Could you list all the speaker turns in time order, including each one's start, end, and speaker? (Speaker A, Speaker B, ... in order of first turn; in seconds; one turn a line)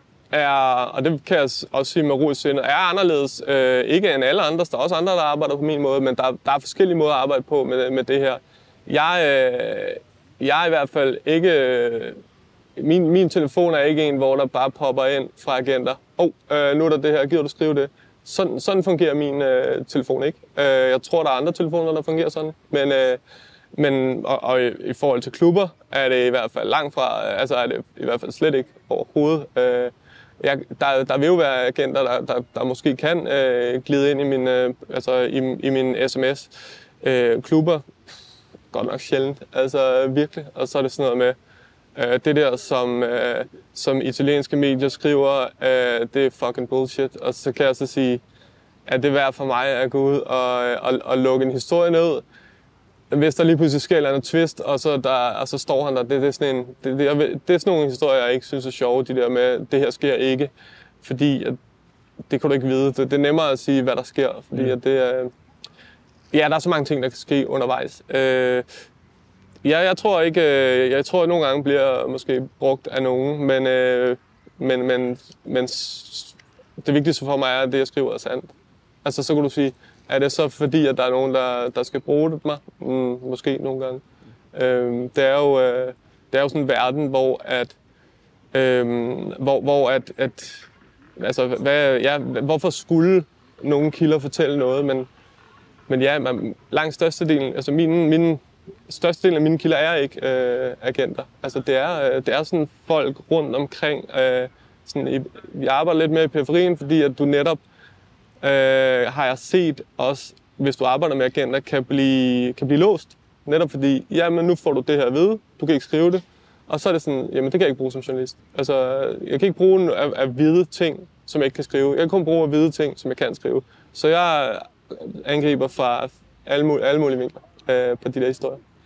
Speaker A: 0.3-12.2
Speaker A: 12.8-23.2
Speaker A: 23.8-37.9
Speaker A: 38.7-41.4
Speaker A: 41.9-48.2
Speaker A: 48.9-52.2
Speaker A: 53.1-60.5
Speaker A: 61.0-61.6
Speaker A: 62.3-65.3
Speaker A: 66.3-68.6
Speaker A: 69.6-78.5
Speaker A: 79.0-87.8
Speaker A: 88.5-95.1
Speaker A: 95.9-107.6
Speaker A: 108.4-128.6